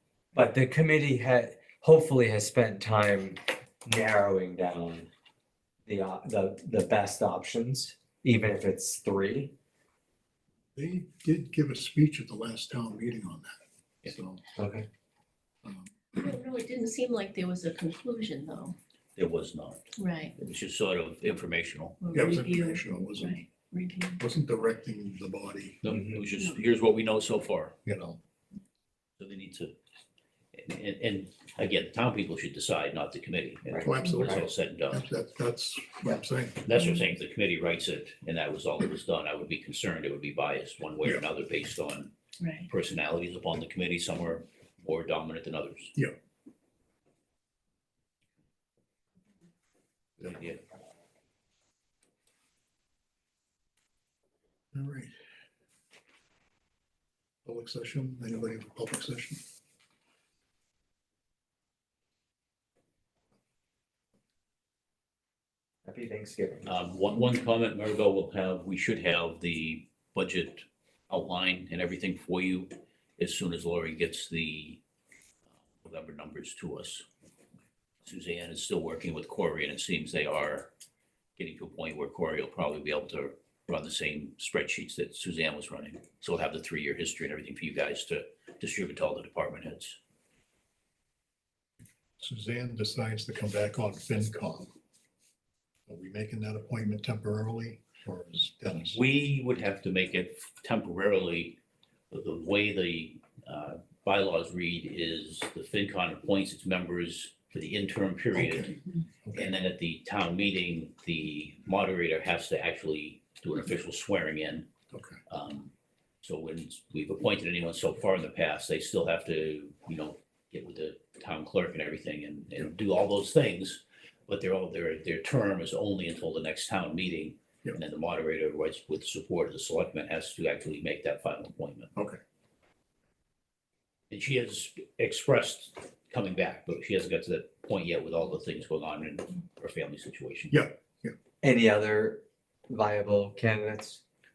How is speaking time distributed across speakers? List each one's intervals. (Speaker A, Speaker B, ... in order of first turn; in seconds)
Speaker A: 0.3-5.1, 5.8-9.5, 14.6-14.8, 65.8-66.7, 141.4-144.0
Speaker B: 10.7-14.4, 15.6-15.9, 22.1-23.4, 24.2-25.8, 27.8-28.2, 33.8-36.6, 54.7-55.1, 57.4-59.4, 92.2-94.7, 95.9-99.0, 108.3-108.7, 109.2-109.5, 114.9-115.2, 131.9-132.2, 140.5-141.1
Speaker C: 16.1-18.8, 20.0-20.3, 22.0-24.2, 42.4-42.7
Speaker D: 19.1-22.0, 25.8-27.8, 29.2-29.7, 30.6-35.0, 36.6-42.1, 42.7-45.9, 50.2-50.6, 66.7-74.8, 75.8-77.0, 78.0-80.7, 81.4-90.0, 98.8-101.6, 102.1-108.8, 109.3-114.7, 115.3-115.7, 116.2-131.9, 134.1-140.6